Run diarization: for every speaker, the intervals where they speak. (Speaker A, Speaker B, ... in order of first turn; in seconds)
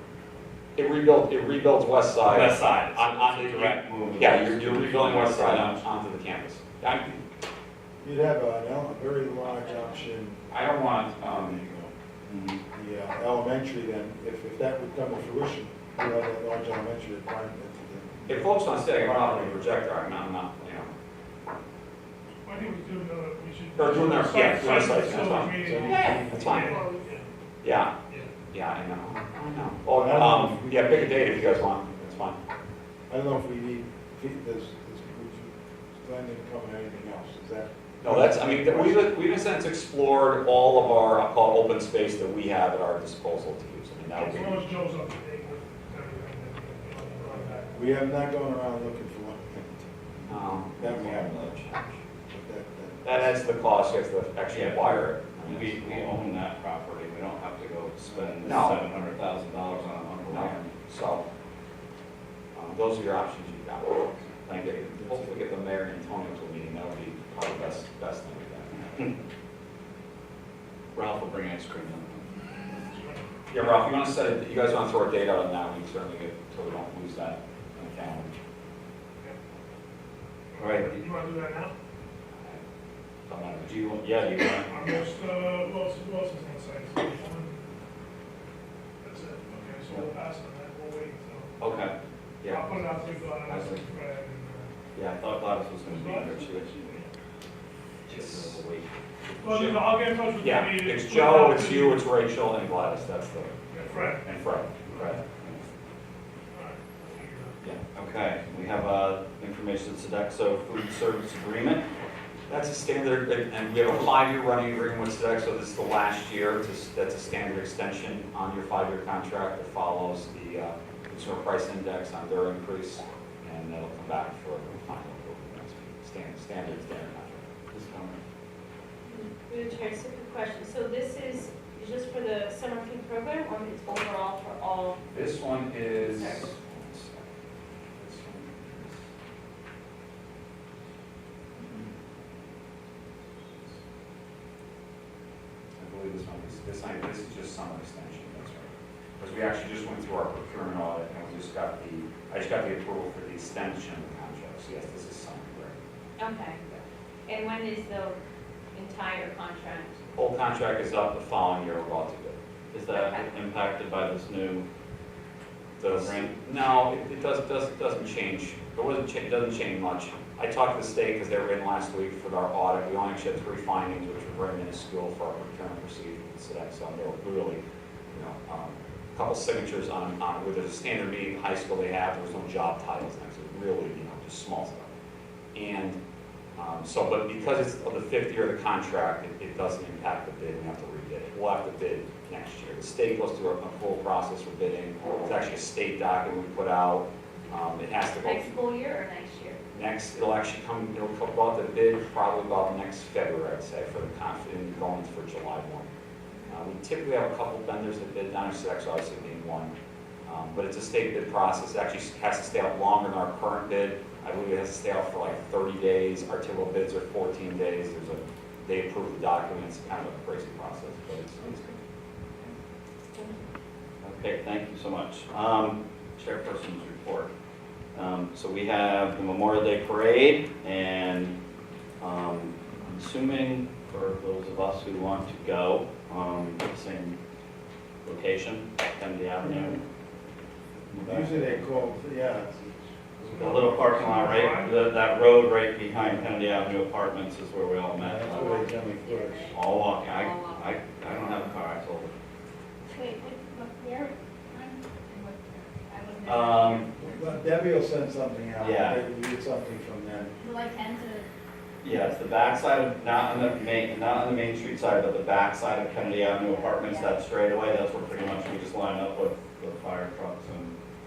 Speaker A: 0.8-7.2, 10.5-11.7, 18.3-20.9, 23.8-26.7, 27.6-27.9, 28.5-32.4, 38.0-44.6, 50.3-52.0, 53.0-56.2, 58.4-58.8, 60.3-61.2, 62.5-69.1, 73.5-78.3, 83.3-84.0, 98.1-98.5, 99.2-103.6, 104.2-105.2, 112.5-127.5, 135.1-137.3, 137.9-139.0, 145.8-155.8, 160.1-162.3, 165.8-177.6, 178.1-184.9, 185.5-186.0, 186.6-198.5, 199.7-205.9, 206.5-209.7, 210.2-221.6
Speaker B: 2.2-5.8, 12.3-12.6, 54.5-60.6, 70.9-72.2, 80.6-81.0, 83.7-84.7, 91.6-92.8, 93.4-93.8, 94.9-96.7, 98.1-98.9, 107.9-111.8, 127.7-128.2, 162.7-164.7, 165.8-166.4, 224.0-227.3, 227.9-231.3, 232.0-237.2, 238.0-239.8, 240.9-241.6, 243.3-248.6, 249.4-252.1, 256.2-256.9, 258.6-259.0, 261.8-270.7
Speaker C: 8.0-10.5, 11.1-11.9, 12.7-19.6, 25.5-26.7, 29.9-32.2, 33.1-39.1, 47.7-51.6, 52.3-53.4, 64.9-65.2, 239.5-239.8, 240.9-244.5, 247.9-249.5, 257.0-260.3
Speaker D: 22.4-27.3, 44.1-47.8, 72.8-73.3, 80.5-81.7, 84.7-87.6, 89.0-91.7, 92.5-94.7, 95.8-97.1, 99.4-102.0, 103.7-104.2, 104.9-105.2, 106.5-107.6, 243.9-244.8
Speaker E: 26.6-27.0, 129.1-135.0, 136.0-136.6, 156.2-156.6, 157.2-158.2, 158.7-160.0, 162.9-163.3, 198.2-199.6, 221.5-221.7, 248.2-250.7, 255.9-256.9, 266.4-267.2
Speaker F: 252.9-255.6, 260.4-261.2